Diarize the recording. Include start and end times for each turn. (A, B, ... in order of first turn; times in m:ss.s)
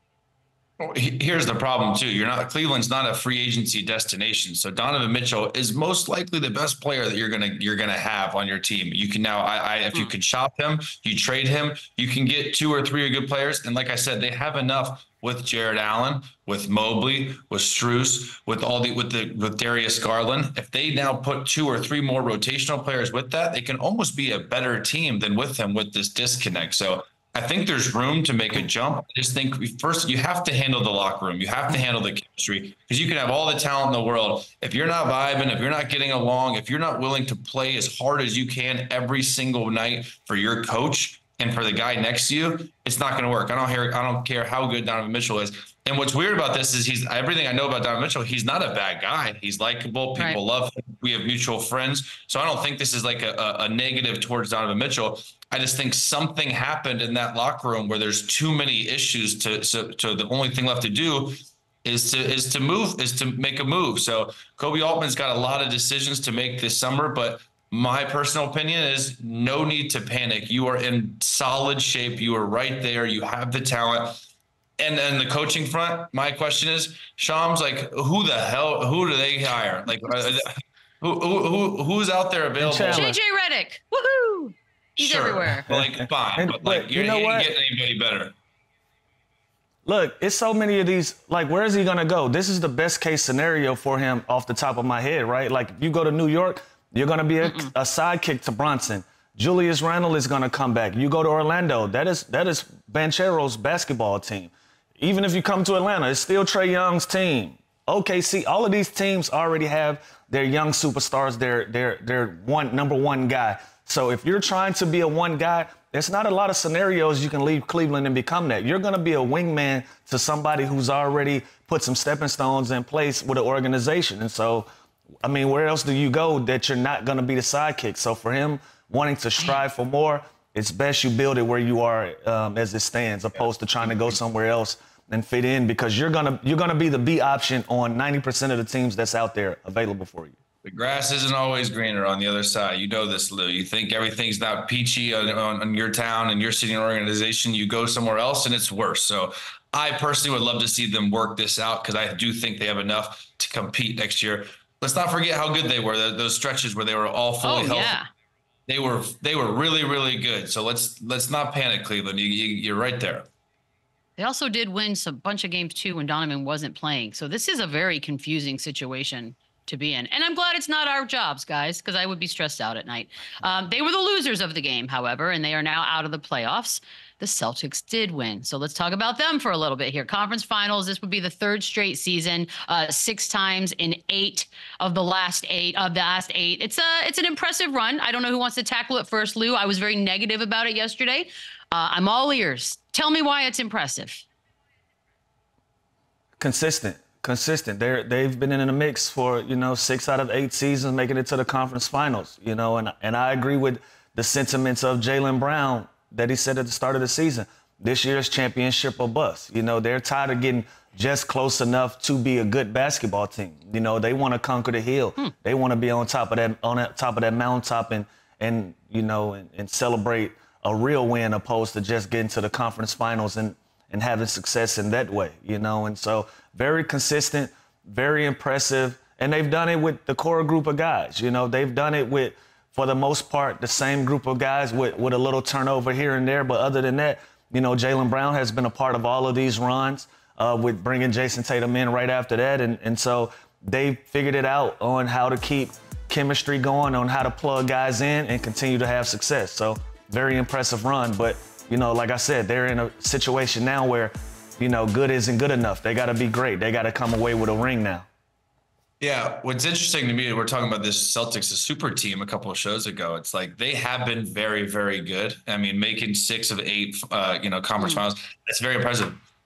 0:00.8-1:14.2 A
1:14.8-1:23.1 A
1:22.6-1:23.2 B
1:22.9-1:25.7 C
1:25.0-1:28.4 A
1:25.7-1:27.5 B
1:29.8-2:04.7 B
1:37.4-1:37.7 C
2:05.2-2:20.4 B
2:13.8-2:14.2 A
2:20.6-2:38.0 A
2:37.4-2:38.1 C
2:38.7-2:43.3 A
2:44.2-3:14.3 C
3:16.4-4:18.1 B
4:19.0-4:29.2 A